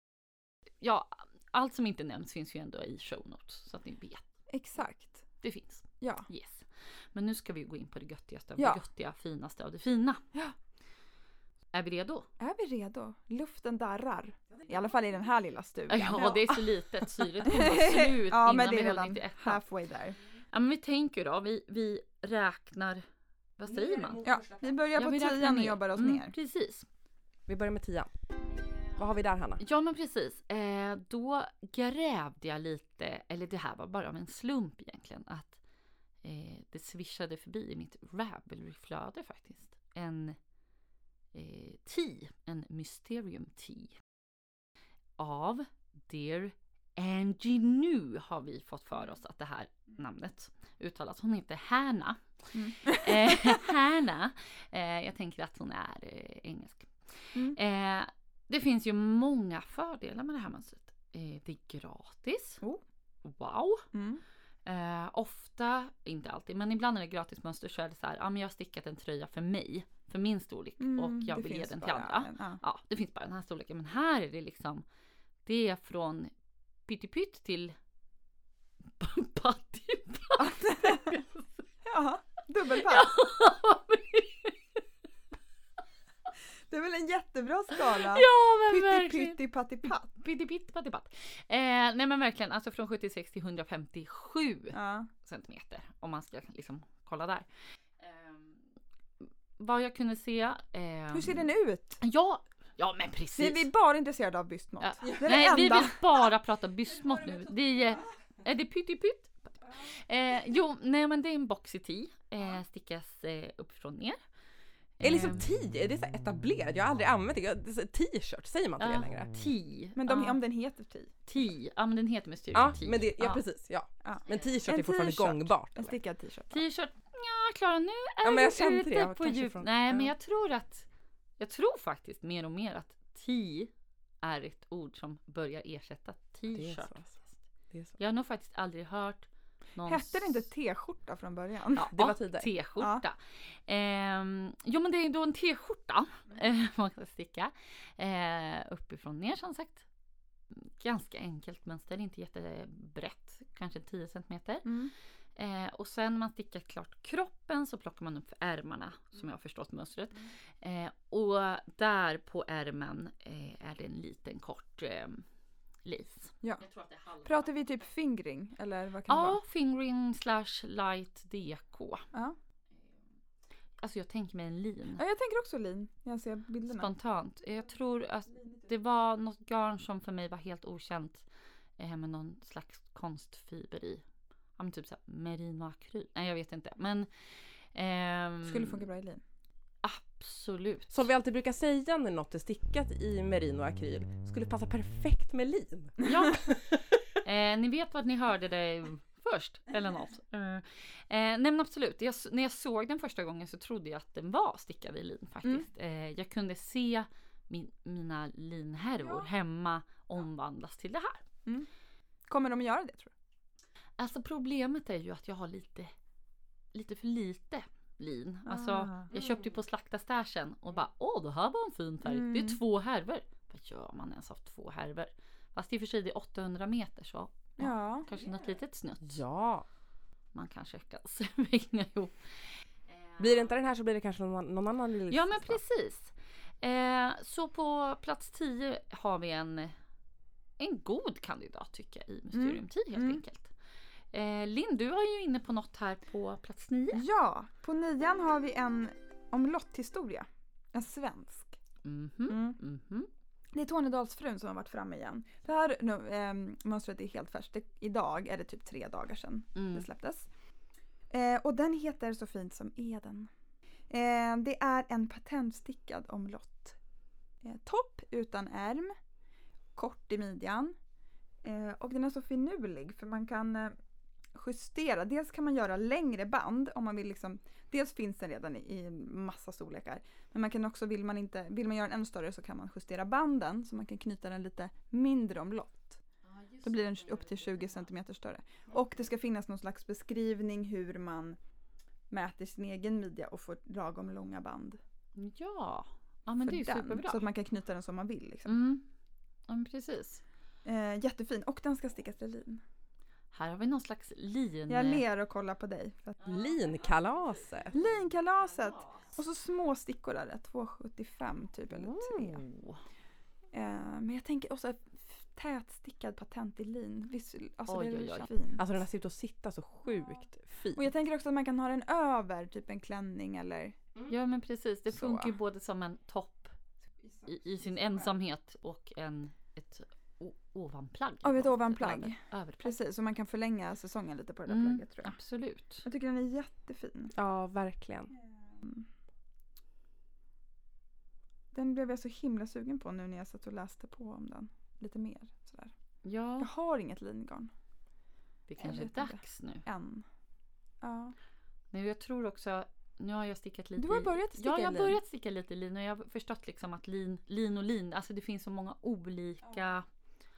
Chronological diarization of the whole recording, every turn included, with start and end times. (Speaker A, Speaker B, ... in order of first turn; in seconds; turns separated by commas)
Speaker A: 0.8-4.2, Speaker B: 4.5-5.2, Speaker A: 5.4-10.2, Speaker B: 6.0-6.3, Speaker B: 8.6-8.8, Speaker A: 11.7-12.3, Speaker B: 12.4-16.6, Speaker A: 15.9-19.6, Speaker B: 17.4-20.2, Speaker A: 20.5-23.0, Speaker A: 23.6-24.2, Speaker C: 23.7-24.8, Speaker B: 24.2-26.3, Speaker A: 25.0-26.9, Speaker C: 27.5-28.1, Speaker C: 29.0-29.6, Speaker A: 29.6-35.6, Speaker A: 36.2-40.4, Speaker A: 41.3-44.0, Speaker A: 45.2-62.6, Speaker B: 52.5-53.6, Speaker A: 63.2-63.9, Speaker B: 63.9-64.2, Speaker A: 64.7-74.8, Speaker B: 70.8-72.6, Speaker A: 75.5-76.3, Speaker A: 76.9-77.8, Speaker A: 79.0-81.6, Speaker B: 80.4-81.1, Speaker B: 81.8-83.1, Speaker A: 82.7-84.6, Speaker B: 86.7-90.1, Speaker A: 87.8-97.5, Speaker B: 94.7-95.1, Speaker A: 98.0-98.6, Speaker A: 99.6-101.5, Speaker B: 101.1-102.0, Speaker A: 102.0-103.7, Speaker B: 103.4-106.3, Speaker A: 104.8-114.2, Speaker C: 106.9-108.0, Speaker A: 115.0-115.4, Speaker C: 115.0-119.3, Speaker A: 118.8-120.4, Speaker B: 120.0-121.1, Speaker A: 121.3-123.4, Speaker C: 122.5-126.0, Speaker B: 124.0-126.6, Speaker A: 126.5-130.9, Speaker C: 128.2-130.1, Speaker A: 131.4-137.2, Speaker C: 136.5-137.2, Speaker C: 137.7-138.0, Speaker A: 138.0-140.5, Speaker B: 139.8-141.9, Speaker A: 141.8-149.9, Speaker C: 141.9-142.5, Speaker B: 142.8-143.0, Speaker A: 150.5-154.7, Speaker B: 154.7-154.9, Speaker A: 155.4-165.2, Speaker A: 165.8-167.6, Speaker B: 167.2-169.4, Speaker A: 169.1-172.1, Speaker A: 173.8-175.0, Speaker B: 175.0-176.9, Speaker A: 176.7-181.2, Speaker A: 181.8-184.0, Speaker A: 184.6-188.8, Speaker B: 188.4-189.2, Speaker A: 189.8-191.1, Speaker C: 190.9-197.0, Speaker A: 196.0-196.5, Speaker A: 197.2-211.2, Speaker B: 209.0-209.3, Speaker B: 212.3-213.1, Speaker A: 214.0-215.9, Speaker A: 216.7-229.2, Speaker B: 218.5-219.1, Speaker C: 219.1-219.5, Speaker B: 222.0-222.6, Speaker B: 227.6-228.1, Speaker C: 228.1-229.7, Speaker A: 230.3-233.5, Speaker C: 233.2-235.6, Speaker A: 235.1-239.8, Speaker A: 240.6-243.5, Speaker B: 242.3-243.2, Speaker A: 244.1-247.0, Speaker B: 246.9-251.6, Speaker A: 251.8-253.1, Speaker B: 252.3-252.6, Speaker B: 253.5-260.3, Speaker A: 259.6-259.9, Speaker B: 261.1-263.3, Speaker B: 263.9-266.8, Speaker B: 267.4-268.9, Speaker B: 269.8-270.8, Speaker B: 271.4-273.8, Speaker B: 274.3-286.0, Speaker A: 286.2-287.9, Speaker B: 286.6-291.4, Speaker B: 292.1-294.8, Speaker A: 295.1-297.2, Speaker B: 296.4-298.5, Speaker A: 298.5-298.9, Speaker A: 299.5-300.2, Speaker B: 300.6-302.6, Speaker A: 303.3-305.0, Speaker B: 304.7-306.2, Speaker A: 306.2-309.1, Speaker C: 306.2-307.8, Speaker B: 307.7-312.4, Speaker A: 311.7-312.8, Speaker B: 313.5-318.6, Speaker A: 317.7-318.3, Speaker C: 318.6-320.9, Speaker B: 320.8-323.8, Speaker A: 324.1-326.5, Speaker B: 324.9-325.4, Speaker B: 327.0-328.1, Speaker A: 327.3-332.8, Speaker B: 331.2-335.1, Speaker A: 334.5-335.9, Speaker B: 335.8-337.1, Speaker C: 337.1-338.1, Speaker B: 338.6-338.9, Speaker B: 341.5-345.7, Speaker A: 346.0-346.5, Speaker B: 346.4-347.5, Speaker A: 348.5-349.6, Speaker B: 348.6-350.1, Speaker B: 350.8-351.1, Speaker A: 351.7-359.9, Speaker B: 353.8-355.0